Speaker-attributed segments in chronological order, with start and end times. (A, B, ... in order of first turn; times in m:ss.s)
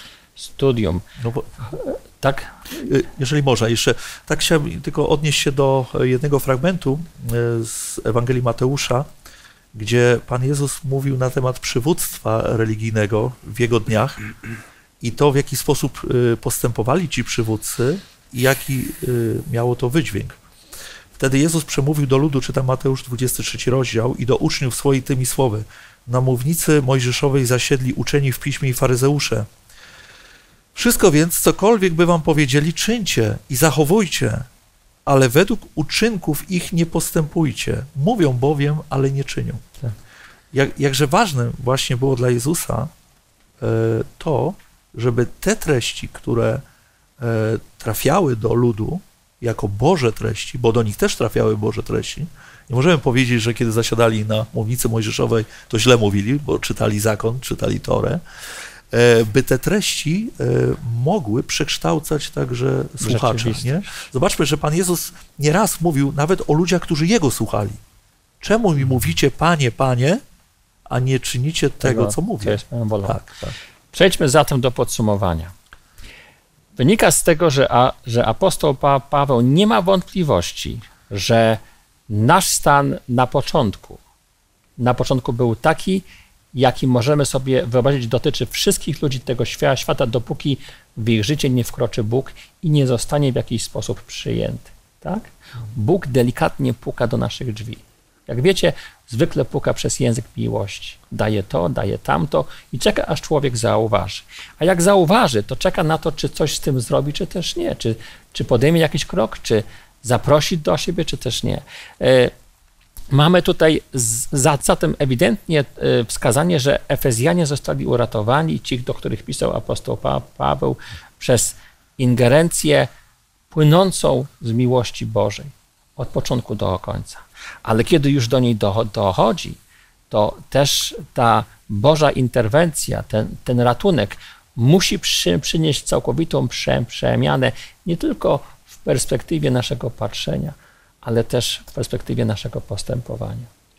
0:00.4-0:01.0 A
0:01.2-0:01.4 B
0:01.7-0:02.6 A
0:02.8-0:09.1 B
0:09.7-0:14.2 B
0:15.0-0:20.4 B
0:21.2-0:29.5 B
0:30.7-0:34.5 B
0:35.0-0:39.6 B
0:40.5-0:42.9 B
0:43.6-0:46.6 B
0:47.2-0:58.2 B
0:58.9-1:07.8 B
1:03.0-1:03.9 A
1:08.4-1:10.2 B
1:10.9-1:13.6 B
1:11.8-1:13.2 A
1:13.9-1:15.5 A
1:16.8-1:24.0 A
1:24.8-1:52.3 A
1:53.1-2:02.9 A
2:03.5-2:09.6 A
2:10.1-2:23.5 A